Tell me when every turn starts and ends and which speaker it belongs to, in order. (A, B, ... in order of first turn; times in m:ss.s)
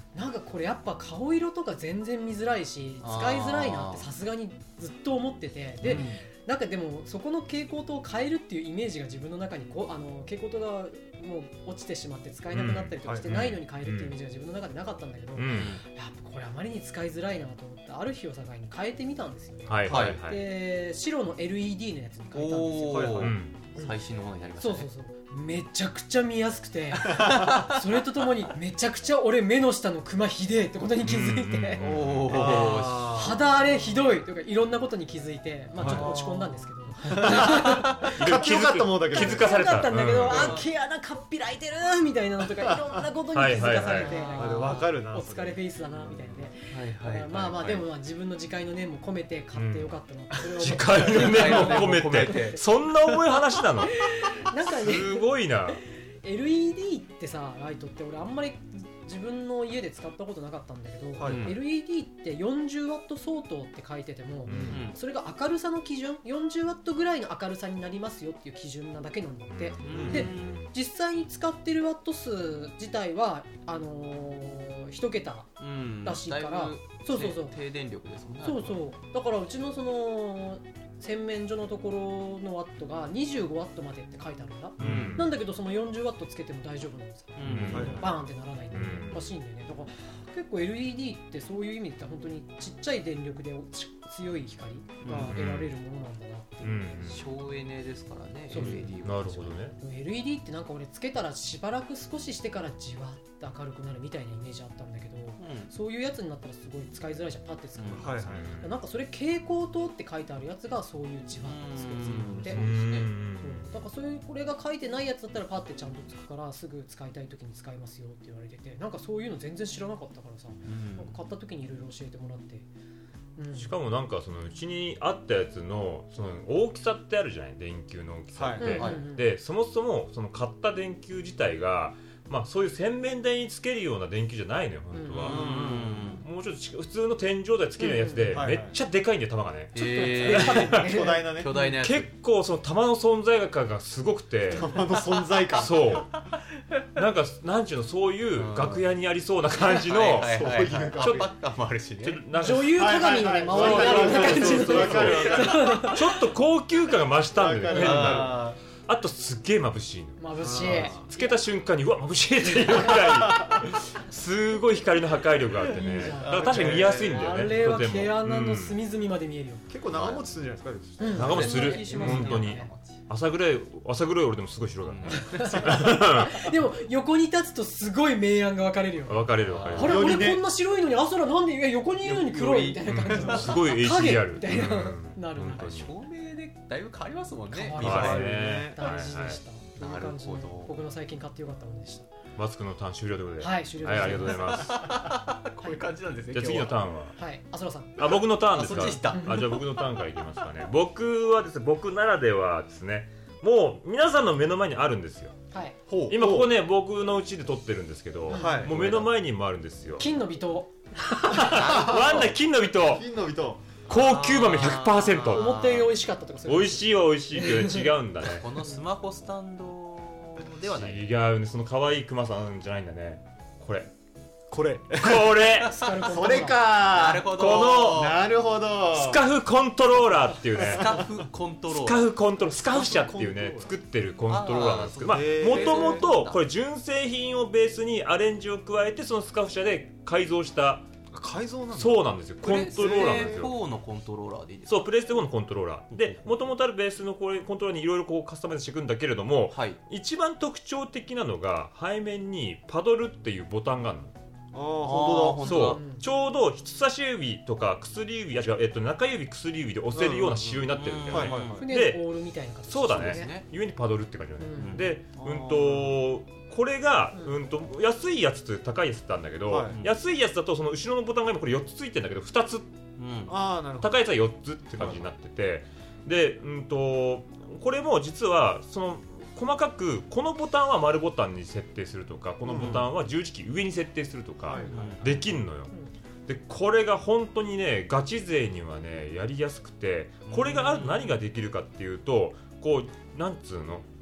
0:00.1-0:23.9 A
0:03.0-0:04.1 B
0:05.8-0:06.2 C
0:12.5-0:14.1 D
0:13.0-0:13.4 C
0:15.4-0:15.7 D
0:15.4-0:15.8 B
0:19.7-0:20.4 D
0:19.9-0:20.2 B
0:22.3-0:24.9 B
0:22.9-0:23.4 C
0:23.1-0:23.7 D
0:24.6-1:17.5 A
0:27.1-0:27.7 B
0:27.2-0:27.5 D
0:31.0-0:32.3 D
0:31.8-0:33.5 B
0:32.2-0:33.4 C
0:35.8-0:36.1 C
0:35.8-0:36.6 B
0:37.1-0:39.9 C
0:37.1-0:40.6 D
0:40.2-0:40.7 B
0:43.3-0:44.9 D
0:44.3-0:46.5 C
0:46.7-0:47.8 B
0:49.5-0:50.0 D
0:50.5-0:54.0 D
0:50.9-0:53.3 B
0:54.6-0:55.8 D
1:01.2-1:01.5 C
1:01.2-1:01.6 B
1:04.5-1:04.8 C
1:04.5-1:04.8 D
1:04.7-1:05.0 B
1:09.5-1:10.7 D
1:09.8-1:10.6 B
1:09.9-1:10.3 C
1:15.6-1:18.8 B
1:18.4-1:37.2 A
1:24.8-1:25.3 B
1:24.8-1:25.3 D
1:27.3-1:28.1 B
1:27.4-1:28.0 D
1:27.7-1:28.1 C
1:28.7-1:29.3 D
1:35.0-1:35.4 B
1:35.1-1:35.3 C
1:35.2-1:35.7 D
1:36.6-1:37.2 D
1:37.0-1:39.6 B
1:38.5-1:39.8 D
1:38.5-2:02.7 A
1:45.4-1:45.7 B
1:47.8-1:48.2 B
1:47.9-1:48.6 C
1:48.2-1:48.7 D
1:51.3-1:53.2 B
1:52.1-1:53.8 D
2:00.7-2:01.2 B
2:03.4-2:03.9 A
2:03.5-2:15.5 D
2:08.3-2:08.9 C
2:08.4-2:09.3 A
2:08.6-2:09.1 B
2:14.9-2:15.4 A
2:15.1-2:16.2 B
2:15.2-2:16.1 C
2:16.2-2:20.9 D
2:17.8-2:18.6 A
2:18.3-2:18.8 C
2:19.7-2:22.1 B
2:19.8-2:22.1 A
2:20.4-2:21.5 C
2:21.7-2:24.7 D
2:24.5-2:24.8 A
2:24.5-2:26.1 C
2:25.6-2:26.1 A
2:25.7-2:26.1 D
2:27.0-2:30.3 D
2:28.3-2:28.9 B
2:29.7-2:32.2 B
2:30.2-2:31.3 C
2:32.0-2:38.3 D
2:32.3-2:36.4 A
2:32.5-2:35.8 C
2:33.5-2:35.9 B
2:37.4-2:38.4 C
2:37.4-2:38.2 A
2:37.7-2:38.6 B
2:38.9-2:48.8 D
2:40.1-2:45.0 A
2:40.4-2:41.0 C
2:45.6-2:49.7 A
2:46.1-2:47.6 B
2:46.2-2:47.4 C
2:49.7-2:51.6 C
2:49.9-2:50.3 B
2:51.0-2:52.7 A
2:51.0-2:56.5 D
2:51.1-2:53.0 B
2:54.8-2:55.8 B
2:55.1-3:05.9 A
2:59.0-3:00.3 D
2:59.4-3:00.1 B
2:59.7-3:00.4 C
3:02.0-3:03.7 B
3:02.9-3:06.0 D
3:03.1-3:03.5 C
3:05.7-3:08.3 B
3:07.5-3:12.0 A
3:07.7-3:09.4 D
3:07.8-3:09.1 C
3:09.8-3:10.7 B
3:12.4-3:14.7 D
3:13.3-3:14.9 A
3:14.0-3:16.9 B
3:16.3-3:17.2 D
3:17.0-3:20.9 A
3:18.0-3:25.3 D
3:18.0-3:20.5 B
3:25.5-3:29.3 A
3:25.9-3:26.5 C
3:26.1-3:30.2 D
3:28.3-3:28.7 C
3:29.8-3:33.0 A
3:31.3-3:33.0 D
3:31.4-3:32.3 B
3:31.7-3:32.2 C
3:32.8-3:33.8 C
3:33.9-3:36.0 B
3:33.9-3:38.4 A
3:33.9-3:35.5 D
3:36.5-3:38.4 D
3:38.2-3:41.1 B
3:40.8-3:43.9 D
3:44.5-3:45.4 C
3:45.0-3:45.8 D
3:45.1-3:46.7 A
3:46.0-3:49.2 C
3:46.7-3:48.2 B
3:47.3-3:48.1 A
3:47.4-3:48.0 D
3:49.0-3:50.8 A
3:49.1-3:50.9 D
3:50.5-3:52.0 B
3:50.7-3:51.0 C
3:51.7-3:56.3 A
3:51.8-4:00.8 D
3:52.6-3:53.7 C
3:54.3-3:56.4 B
3:55.0-3:56.0 C
3:59.9-4:00.3 A
4:01.1-4:02.1 C
4:01.7-4:03.5 D
4:02.1-4:02.6 A
4:02.4-4:04.9 B
4:02.7-4:03.5 C
4:04.7-4:06.2 D
4:05.4-4:07.7 A
4:05.9-4:06.3 C
4:06.8-4:11.4 D
4:08.6-4:09.6 A
4:09.5-4:09.8 B
4:10.2-4:14.1 A
4:14.5-4:15.7 C
4:14.8-4:15.8 B
4:15.4-4:32.3 A
4:15.4-4:16.0 D
4:18.0-4:20.0 D
4:19.9-4:21.7 C
4:20.6-4:21.7 B
4:20.9-4:22.0 D
4:22.7-4:23.3 D
4:22.8-4:23.5 B
4:24.1-4:32.6 D
4:24.5-4:26.0 B
4:29.5-4:29.8 C
4:33.0-4:33.4 B
4:33.3-4:34.0 C
4:33.8-4:42.5 D
4:34.0-4:35.4 A
4:34.8-4:35.1 C
4:36.0-4:36.5 A
4:37.2-4:37.7 A
4:38.6-4:40.1 A
4:42.4-4:42.9 C
4:42.5-4:43.3 A
4:43.1-4:45.7 D
4:44.3-4:47.6 A
4:44.4-4:45.0 C
4:44.7-4:45.2 B
4:46.3-4:53.8 D
4:48.1-4:50.6 A
4:50.2-4:51.2 B
4:51.2-4:53.8 A